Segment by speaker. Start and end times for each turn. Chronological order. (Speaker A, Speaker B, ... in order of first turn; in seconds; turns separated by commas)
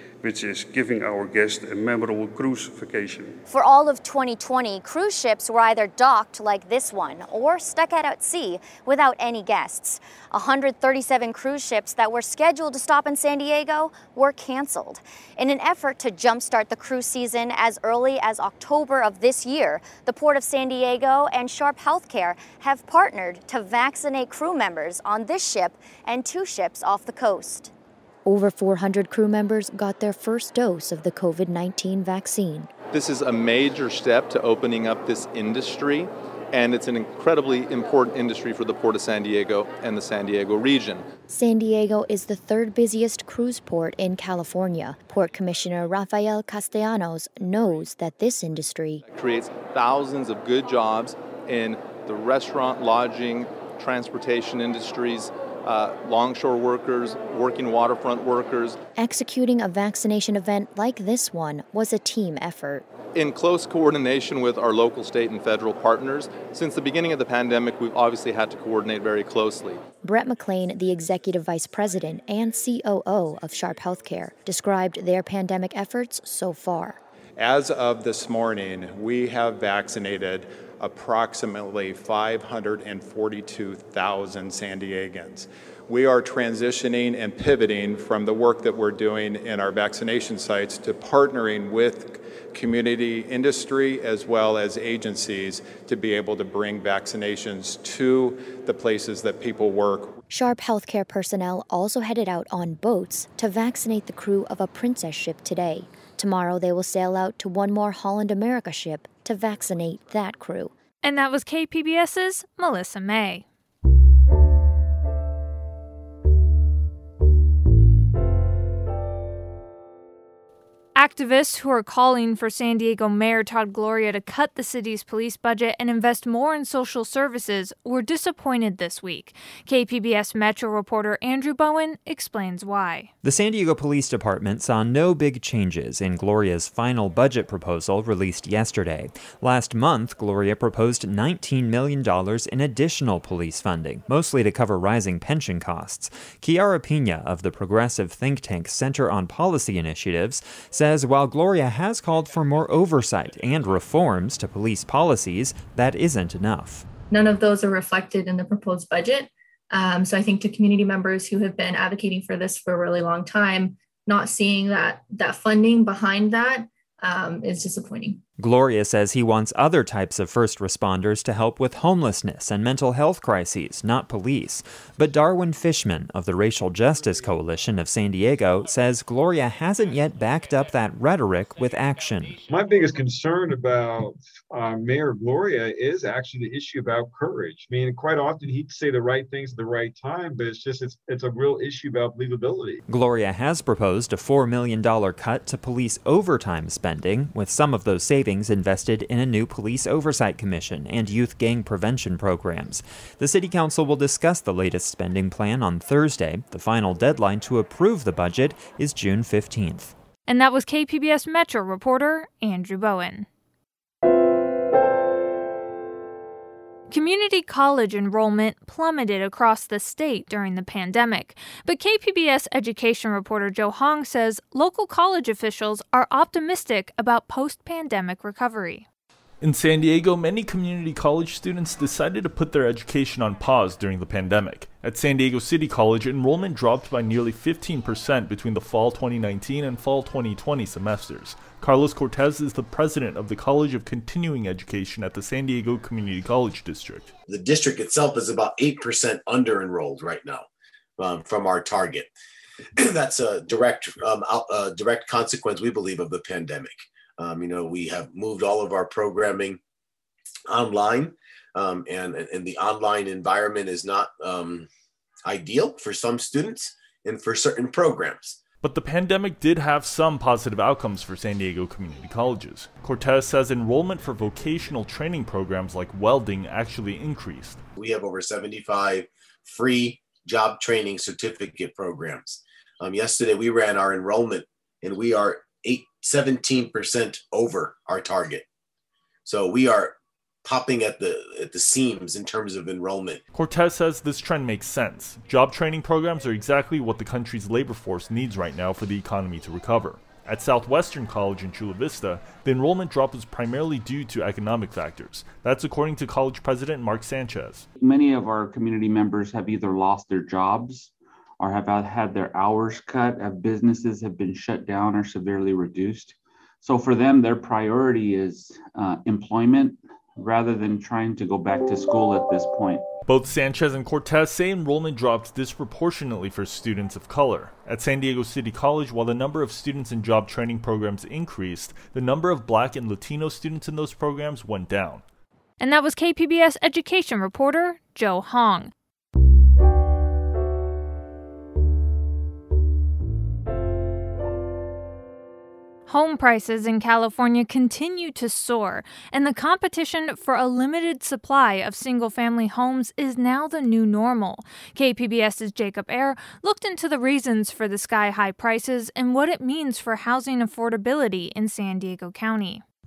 Speaker A: 0.2-3.3, Speaker B: 3.5-27.7, Speaker C: 28.2-32.7, Speaker D: 32.9-41.1, Speaker C: 41.3-49.0, Speaker D: 49.1-58.8, Speaker C: 59.0-62.8, Speaker D: 63.1-69.8, Speaker C: 70.0-77.0, Speaker E: 77.4-100.1, Speaker C: 100.3-110.7, Speaker F: 111.0-113.4, Speaker F: 120.9-133.1, Speaker G: 133.2-156.8, Speaker H: 157.1-168.2, Speaker G: 168.4-182.4, Speaker I: 182.5-184.1, Speaker I: 184.8-190.7, Speaker I: 191.8-192.7, Speaker G: 192.9-209.9, Speaker F: 210.3-213.3, Speaker F: 216.9-228.8, Speaker J: 229.4-247.1, Speaker K: 247.3-250.4, Speaker K: 251.0-252.1, Speaker K: 252.8-259.6, Speaker K: 260.5-264.7, Speaker K: 265.2-268.4, Speaker J: 268.6-277.6, Speaker K: 277.8-288.4, Speaker K: 289.2-293.2, Speaker J: 293.3-307.7, Speaker L: 307.8-322.9, Speaker J: 323.0-335.0, Speaker F: 335.6-338.7, Speaker F: 345.9-362.6